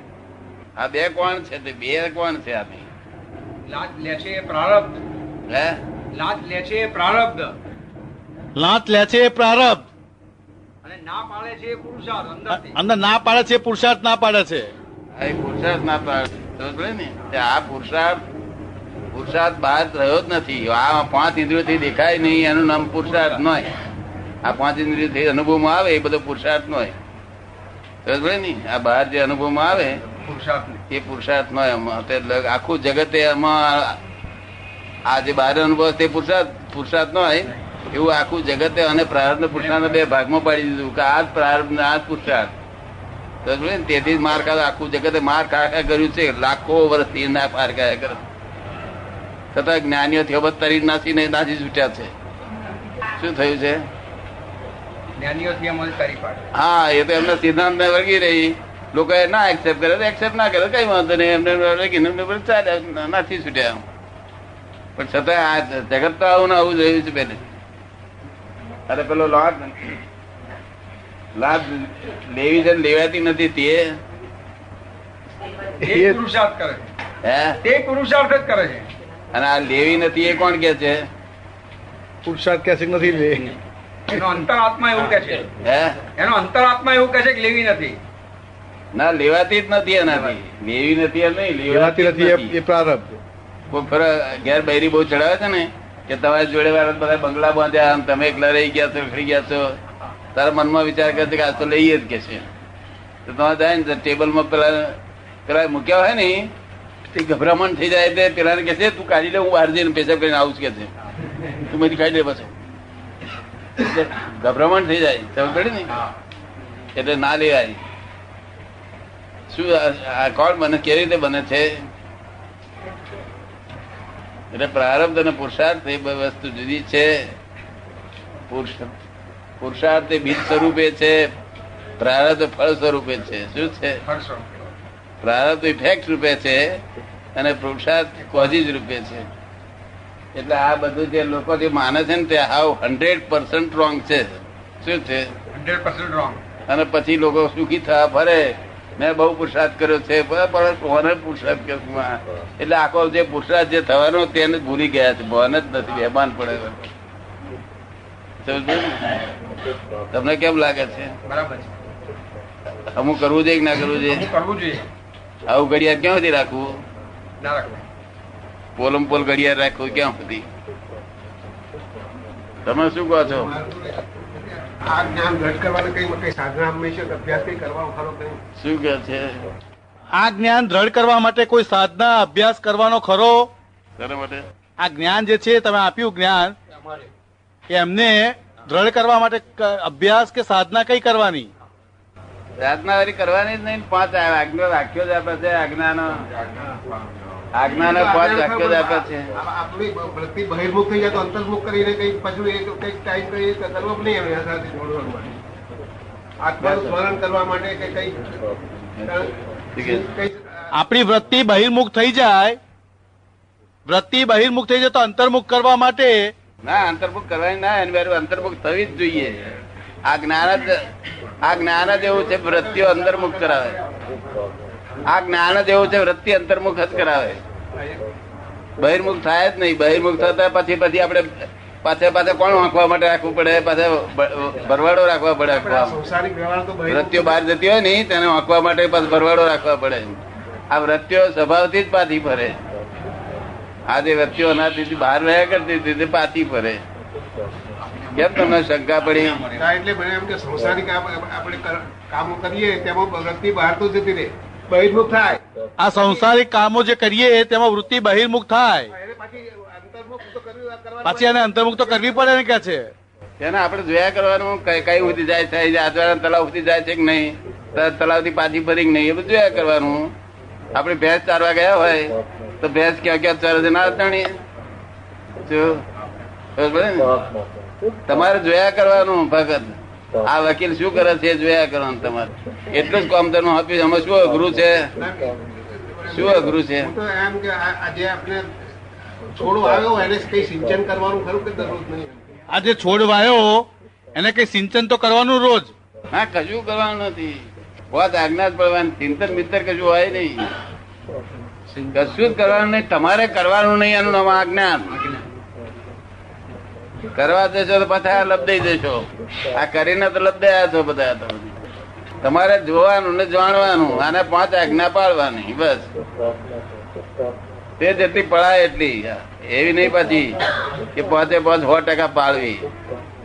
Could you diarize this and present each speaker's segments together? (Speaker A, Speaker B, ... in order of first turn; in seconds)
Speaker A: 0.8-2.9, 5.5-5.8, 15.1-18.2, 19.1-23.7, 24.4-26.9, 28.0-30.0, 30.9-34.0, 35.1-42.5, 43.4-48.2, 49.5-52.1, 53.2-53.8, 56.5-63.8, 65.0-67.4, 68.9-69.9, 71.4-73.9, 77.2-77.6, 79.3-81.0, 85.6-86.0, 88.9-92.6, 93.7-99.7, 100.3-102.5, 103.2-104.9, 105.5-106.5, 107.1-110.9, 111.6-112.5, 113.8-115.9, 116.9-117.8, 119.5-121.7, 124.5-127.3, 128.5-128.9, 129.6-131.2, 132.0-134.0, 135.2-136.8, 137.3-139.2, 140.3-145.3, 146.7-156.8, 158.4-159.2, 160.1-161.1, 162.9-164.3, 165.5-166.7, 168.8-170.4, 172.6-173.5, 178.6-179.4, 184.0-184.4, 192.6-196.2, 197.5-199.2, 206.6-206.9, 209.7-210.1, 216.6-219.4, 220.1-220.7, 221.4-223.8, 225.1-227.4, 228.8-236.0, 236.9-240.2, 240.7-242.6, 243.9-246.8, 248.1-249.4, 263.4-270.1, 270.7-274.3, 275.4-275.8, 276.6-277.1, 278.1-284.9, 286.1-286.9, 296.1-300.5, 301.9-305.0, 307.1-311.6, 312.2-315.9, 317.8-320.3, 320.9-322.7
Speaker B: 3.7-5.0, 6.1-7.5, 10.8-12.8, 23.0-23.4, 30.1-30.8, 39.5-39.8, 55.2-56.5, 75.8-76.9, 77.6-78.9, 84.1-85.5, 86.2-88.0, 90.1-90.3, 134.1-134.6, 138.2-138.6, 145.5-146.4, 161.3-161.7, 164.1-164.8, 167.4-167.8, 249.1-249.6
Speaker C: 8.6-9.8, 12.5-14.7, 82.3-82.7, 91.7-93.1, 180.1-183.5, 184.8-186.5, 187.7-191.5, 210.8-212.6, 213.9-216.3, 255.8-258.9, 261.0-262.9, 292.5-295.7
Speaker D: 173.3-178.4, 197.6-205.4, 206.4-208.3, 209.0-210.7, 223.0-224.2, 227.7-228.0, 235.5-237.4, 249.5-255.4, 258.9-262.1, 285.0-288.5, 289.3-292.2